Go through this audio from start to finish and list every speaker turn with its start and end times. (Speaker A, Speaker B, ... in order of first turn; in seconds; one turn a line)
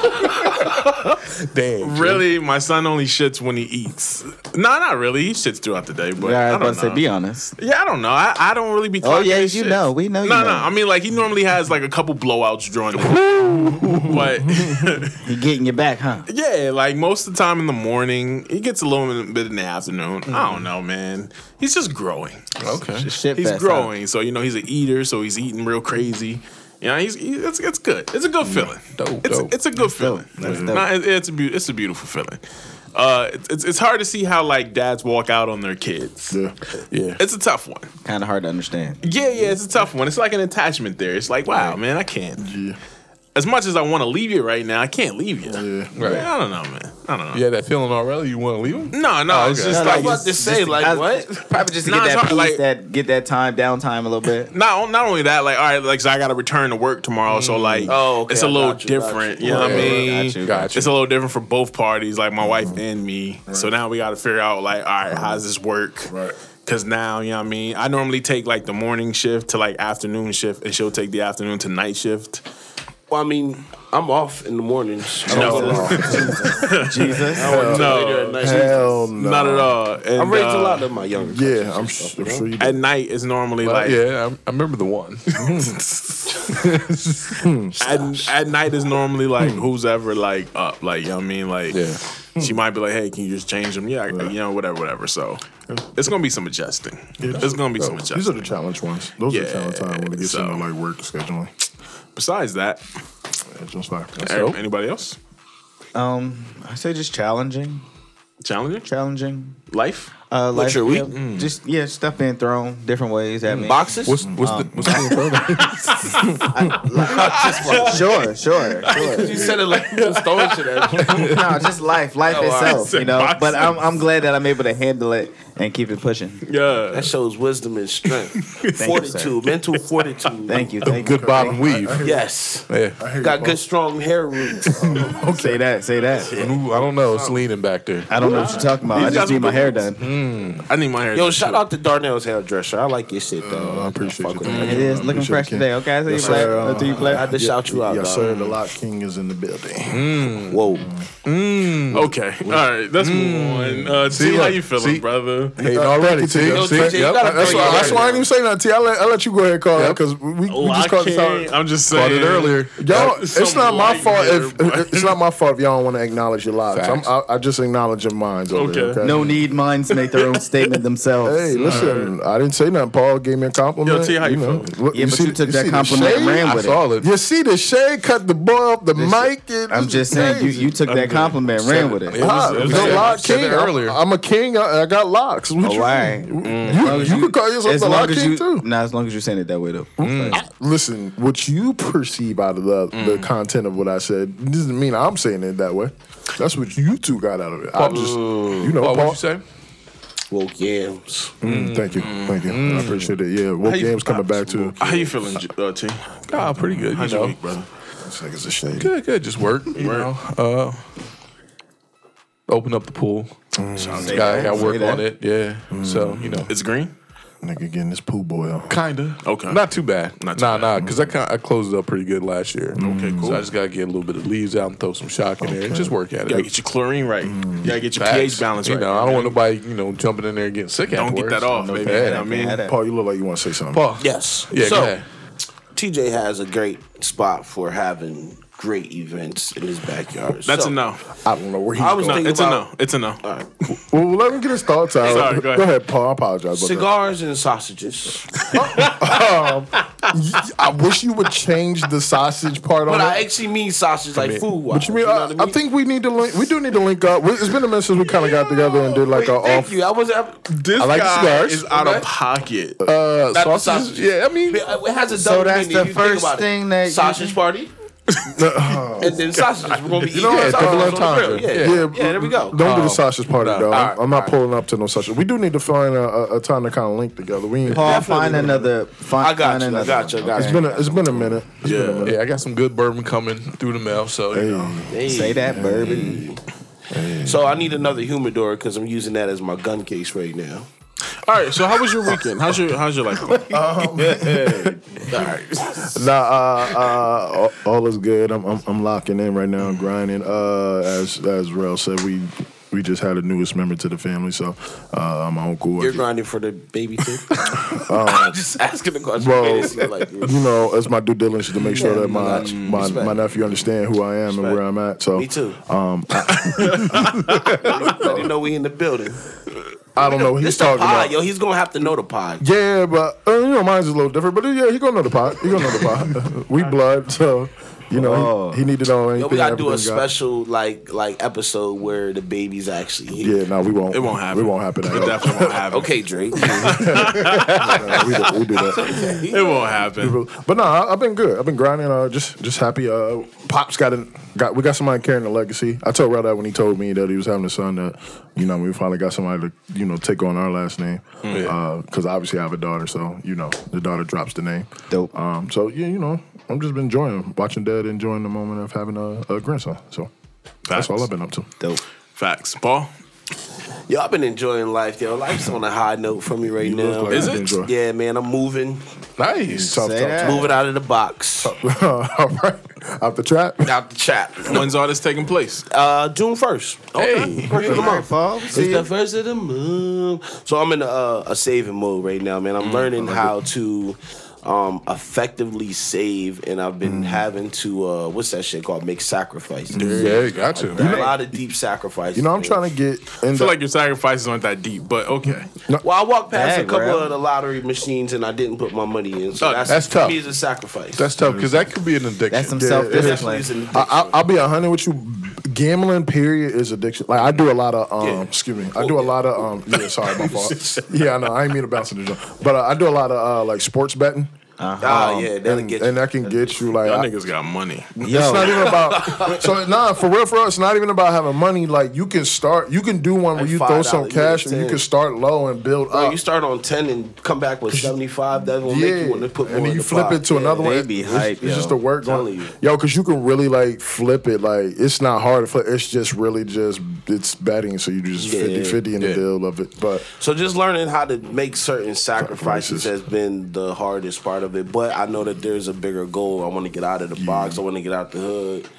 Speaker A: 0.3-2.2
Speaker B: 0.4-1.1
Speaker B: 1.8-7.0
Speaker C: 6.2-7.5
Speaker B: 7.6-15.2
Speaker C: 9.0-10.7
Speaker A: 13.0-14.4
Speaker D: 13.7-15.1
Speaker C: 15.2-16.3
Speaker B: 16.3-32.4
Speaker A: 20.3-20.7
Speaker A: 22.6-23.1
Speaker C: 23.0-23.9
Speaker D: 28.4-28.7
Speaker A: 29.0-29.6
Speaker C: 29.8-30.9
Speaker D: 30.4-30.8
Speaker B: 33.0-36.4
Speaker A: 36.9-37.2
Speaker B: 37.2-37.9
Speaker C: 38.0-39.0
Speaker B: 39.0-42.5
Speaker D: 42.4-42.8
Speaker B: 43.4-47.4
Speaker D: 45.5-46.2
Speaker A: 46.0-46.3
Speaker A: 47.3-49.9
Speaker B: 48.9-50.3
Speaker E: 49.6-51.3
Speaker C: 49.7-54.5
Speaker B: 51.8-52.6
Speaker B: 54.5-72.4
Speaker A: 57.3-58.0
Speaker E: 57.9-60.0
Speaker C: 59.4-60.7
Speaker A: 59.5-60.9
Speaker D: 62.5-62.8
Speaker D: 65.1-65.4
Speaker D: 66.1-66.3
Speaker E: 73.1-79.1
Speaker D: 75.3-76.4
Speaker B: 75.3-80.9
Speaker C: 75.3-77.7
Speaker D: 77.4-79.8
Speaker C: 78.4-78.7
Speaker E: 80.2-82.5
Speaker D: 81.2-82.8
Speaker B: 82.6-84.0
Speaker A: 83.6-85.4
Speaker D: 85.4-85.8
Speaker B: 85.4-86.7
Speaker A: 86.5-87.5
Speaker D: 87.4-87.8
Speaker B: 87.8-95.4
Speaker E: 87.8-88.3
Speaker D: 89.4-89.7
Speaker A: 91.7-92.0
Speaker B: 96.0-98.5
Speaker D: 97.2-97.5
Speaker A: 97.4-98.0
Speaker D: 98.1-101.5
Speaker B: 99.3-100.7
Speaker B: 102.2-102.8
Speaker D: 103.5-104.3
Speaker B: 104.2-105.2
Speaker A: 104.2-104.6
Speaker C: 105.9-107.8
Speaker B: 108.4-108.9
Speaker C: 108.8-109.6
Speaker B: 109.7-110.1
Speaker C: 110.3-113.8
Speaker E: 110.5-111.2
Speaker B: 111.1-111.5
Speaker A: 113.5-115.9
Speaker E: 113.6-114.3
Speaker D: 114.2-115.2
Speaker C: 114.4-115.1
Speaker B: 115.5-116.4
Speaker D: 116.3-116.7
Speaker C: 116.4-119.4
Speaker E: 117.0-118.3
Speaker B: 117.1-118.3
Speaker B: 118.8-121.4
Speaker E: 118.8-121.5
Speaker C: 121.1-126.4
Speaker E: 122.3-122.9
Speaker B: 122.3-123.8
Speaker B: 126.4-127.1
Speaker E: 126.9-130.8
Speaker B: 128.1-128.8
Speaker C: 128.8-129.4
Speaker B: 129.5-130.6
Speaker C: 130.5-131.5
Speaker D: 130.8-132.3
Speaker A: 130.9-132.1
Speaker E: 132.0-135.3
Speaker A: 132.7-133.0
Speaker D: 133.0-133.6
Speaker D: 134.6-135.3
Speaker C: 135.1-136.3
Speaker E: 136.3-137.4
Speaker A: 136.3-138.5
Speaker C: 138.1-140.1
Speaker B: 138.2-139.9
Speaker E: 138.2-139.1
Speaker A: 139.9-140.7
Speaker B: 140.7-141.6
Speaker E: 141.1-145.1
Speaker D: 143.4-151.1
Speaker B: 144.4-144.9
Speaker C: 144.6-147.3
Speaker E: 146.1-148.4
Speaker B: 148.2-148.6
Speaker A: 149.9-150.7
Speaker E: 150.5-150.9
Speaker A: 151.2-152.1
Speaker D: 151.9-152.6
Speaker B: 151.9-155.6
Speaker A: 153.0-155.1
Speaker A: 155.6-158.0
Speaker D: 155.6-161.6
Speaker E: 156.4-158.3
Speaker B: 157.4-158.0
Speaker B: 160.5-165.1
Speaker A: 161.9-163.1
Speaker D: 162.8-169.3
Speaker A: 166.7-167.1
Speaker B: 168.5-169.3
Speaker C: 169.0-171.8
Speaker B: 169.9-170.4
Speaker D: 171.2-180.8
Speaker A: 171.6-171.9
Speaker B: 171.6-172.1
Speaker B: 173.8-174.7
Speaker C: 174.9-176.8
Speaker A: 176.4-177.1
Speaker C: 178.9-183.1
Speaker B: 180.9-183.4
Speaker A: 181.1-184.0
Speaker D: 182.2-188.7
Speaker C: 185.6-190.4
Speaker B: 186.4-187.3
Speaker A: 190.0-190.4
Speaker D: 190.3-199.2
Speaker B: 192.9-193.3
Speaker A: 197.8-199.4
Speaker E: 197.8-198.7
Speaker E: 200.3-201.4
Speaker D: 201.4-205.4
Speaker A: 201.4-203.1
Speaker B: 202.0-202.5
Speaker B: 203.6-207.7
Speaker A: 206.3-207.4
Speaker D: 208.0-208.9
Speaker A: 208.8-210.8
Speaker B: 209.8-210.1
Speaker A: 212.5-213.3
Speaker D: 213.6-214.7
Speaker B: 213.7-214.4
Speaker C: 214.0-215.1
Speaker A: 214.1-216.5
Speaker D: 215.7-216.5
Speaker B: 216.5-216.9
Speaker D: 217.4-218.8
Speaker A: 218.7-226.5
Speaker B: 219.2-219.6
Speaker B: 220.2-220.8
Speaker D: 220.8-221.1
Speaker D: 222.7-223.4
Speaker B: 222.8-223.5
Speaker D: 225.4-225.9
Speaker B: 226.3-229.4
Speaker D: 227.2-227.8
Speaker A: 227.7-232.2
Speaker B: 230.9-232.6
Speaker C: 231.5-232.8
Speaker D: 232.7-233.9
Speaker A: 233.7-235.1
Speaker E: 234.0-234.9
Speaker E: 235.7-240.8
Speaker B: 240.4-241.1
Speaker D: 241.2-242.3
Speaker E: 241.8-242.7
Speaker B: 242.0-243.7
Speaker E: 243.2-243.5
Speaker D: 243.9-246.9
Speaker B: 245.0-245.7
Speaker E: 246.5-248.6
Speaker B: 248.4-249.2
Speaker D: 248.5-253.2
Speaker B: 249.8-250.1
Speaker E: 252.9-255.6
Speaker A: 254.2-254.4
Speaker D: 254.7-259.7
Speaker E: 258.9-260.5
Speaker B: 260.5-262.8
Speaker A: 260.8-262.1
Speaker A: 262.8-264.6
Speaker E: 263.3-267.7
Speaker C: 265.1-267.4
Speaker B: 268.1-270.2
Speaker D: 268.2-269.3
Speaker E: 269.0-272.6
Speaker D: 270.1-278.6
Speaker A: 270.3-271.9
Speaker A: 272.6-274.2
Speaker C: 277.7-280.7
Speaker E: 277.7-281.4
Speaker D: 280.4-282.2
Speaker B: 281.6-282.1
Speaker A: 282.0-284.9
Speaker D: 284.3-286.0
Speaker E: 284.9-286.4
Speaker C: 285.1-286.2
Speaker A: 285.9-286.2
Speaker D: 286.9-287.9
Speaker E: 287.1-290.7
Speaker B: 291.2-294.6
Speaker D: 293.2-294.8
Speaker E: 294.2-294.5
Speaker E: 295.1-296.0
Speaker D: 295.9-306.0
Speaker E: 305.8-310.4
Speaker A: 307.3-307.6
Speaker D: 307.6-308.4
Speaker D: 309.2-318.3
Speaker E: 311.7-313.2
Speaker B: 312.3-313.0
Speaker E: 314.3-314.6
Speaker E: 315.1-315.6
Speaker B: 316.3-317.8
Speaker E: 317.5-319.2
Speaker D: 320.0-321.2
Speaker E: 320.0-322.4
Speaker D: 322.4-330.1
Speaker C: 327.9-328.6
Speaker E: 329.2-333.4
Speaker D: 333.2-335.7
Speaker B: 333.9-338.2
Speaker E: 335.5-337.1
Speaker D: 336.4-339.2
Speaker E: 337.7-339.9
Speaker B: 338.9-340.2
Speaker D: 339.9-360.1
Speaker B: 351.2-351.5
Speaker A: 351.3-351.5
Speaker B: 360.7-361.1
Speaker D: 360.7-361.5
Speaker B: 362.1-362.9
Speaker E: 363.9-368.8
Speaker D: 366.6-367.7
Speaker B: 367.1-367.5
Speaker A: 369.2-369.8
Speaker D: 369.4-370.6
Speaker C: 369.7-370.5
Speaker E: 370.2-371.5
Speaker D: 371.4-373.7
Speaker E: 373.6-374.7
Speaker B: 374.4-375.7
Speaker E: 375.7-392.6
Speaker A: 377.0-378.0
Speaker C: 377.5-378.9
Speaker B: 382.6-382.9
Speaker D: 383.0-383.4
Speaker D: 386.8-387.3
Speaker D: 389.7-390.1
Speaker B: 389.8-390.2
Speaker A: 389.9-390.9
Speaker D: 390.7-391.4
Speaker C: 390.8-391.1
Speaker D: 392.1-393.6
Speaker B: 393.3-395.5
Speaker D: 395.2-395.9
Speaker E: 395.8-401.1
Speaker C: 396.3-397.1
Speaker B: 399.4-399.7
Speaker A: 399.7-400.2
Speaker A: 401.0-402.6
Speaker D: 401.2-401.7
Speaker C: 402.3-403.5
Speaker D: 402.6-414.3
Speaker E: 402.9-404.2
Speaker B: 409.7-410.8
Speaker E: 410.2-410.5
Speaker C: 414.6-415.3
Speaker E: 414.8-416.4
Speaker D: 415.4-417.1
Speaker B: 416.8-418.0
Speaker D: 418.0-426.2
Speaker C: 418.0-418.7
Speaker E: 418.3-419.6
Speaker E: 423.4-424.8
Speaker E: 425.9-430.6
Speaker D: 427.7-440.1
Speaker C: 430.3-431.8
Speaker E: 432.0-432.5
Speaker E: 438.2-438.9
Speaker A: 439.0-439.2
Speaker E: 440.1-448.7
Speaker D: 442.2-442.9
Speaker D: 447.2-447.6